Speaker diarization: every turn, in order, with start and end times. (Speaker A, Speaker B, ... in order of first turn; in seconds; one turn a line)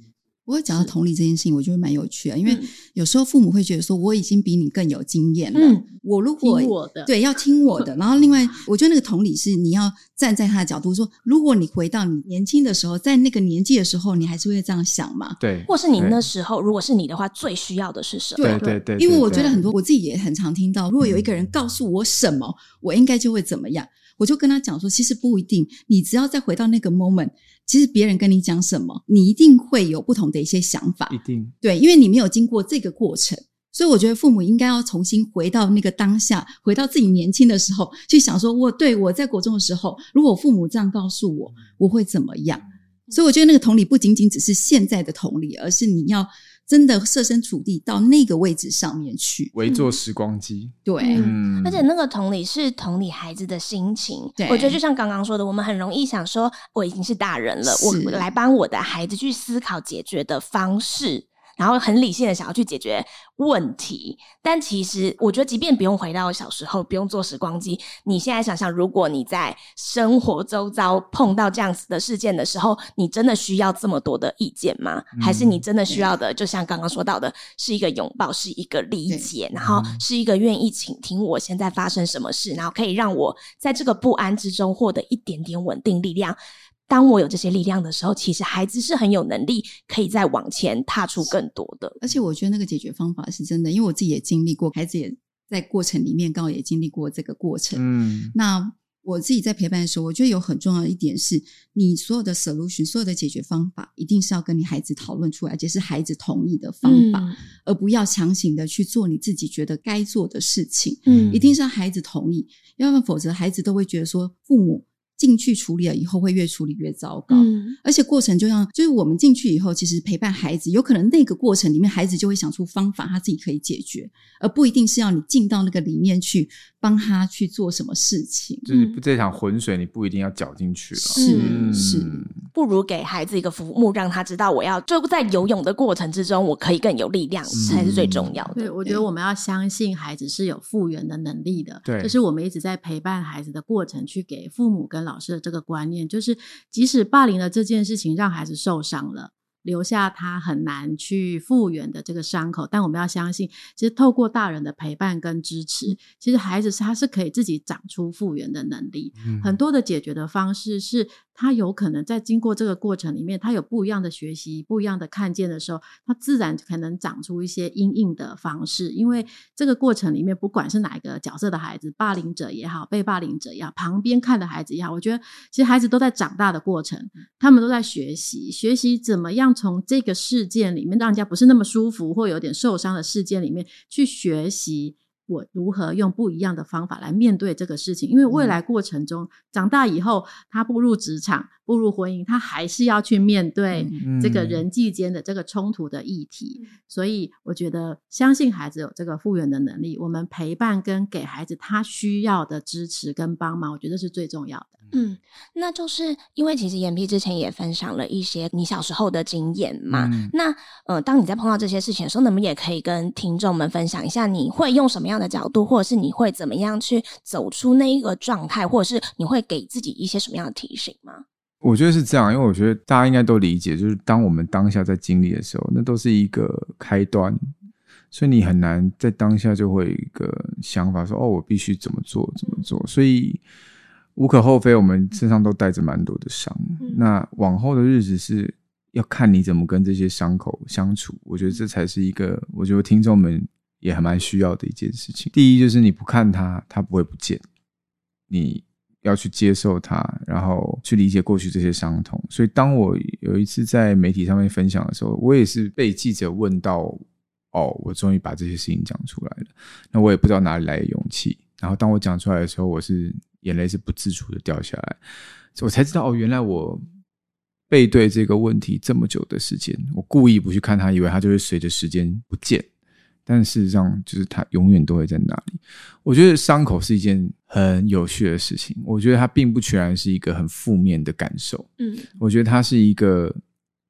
Speaker A: 0.5-15.4
Speaker B: 5.6-5.8
Speaker C: 6.4-7.1
Speaker D: 15.4-16.2
Speaker B: 15.7-18.6
Speaker A: 18.4-49.5
Speaker D: 18.4-19.7
Speaker D: 31.1-31.6
Speaker D: 49.5-51.9
Speaker A: 50.9-51.3
Speaker B: 51.0-92.0
Speaker A: 54.4-54.8
Speaker A: 57.6-58.2
Speaker D: 75.2-75.6
Speaker D: 79.6-80.0
Speaker A: 92.0-128.7
Speaker D: 97.8-98.3
Speaker B: 106.8-107.4
Speaker B: 111.1-111.4
Speaker D: 111.1-111.4
Speaker B: 117.3-117.8
Speaker D: 128.7-132.3
Speaker B: 128.7-129.0
Speaker A: 131.0-132.3
Speaker B: 131.2-131.7
Speaker B: 132.5-138.7
Speaker D: 137.5-138.3
Speaker C: 138.5-204.8
Speaker D: 141.8-142.2
Speaker D: 159.2-159.6
Speaker A: 188.3-188.6
Speaker A: 193.7-194.0
Speaker D: 194.0-194.6
Speaker B: 204.9-221.2
Speaker D: 209.9-210.3
Speaker D: 221.6-227.5
Speaker D: 228.1-233.4
Speaker D: 234.2-247.4
Speaker D: 248.3-265.0
Speaker D: 265.6-266.9
Speaker D: 267.7-272.7
Speaker D: 273.3-283.4
Speaker B: 281.8-282.1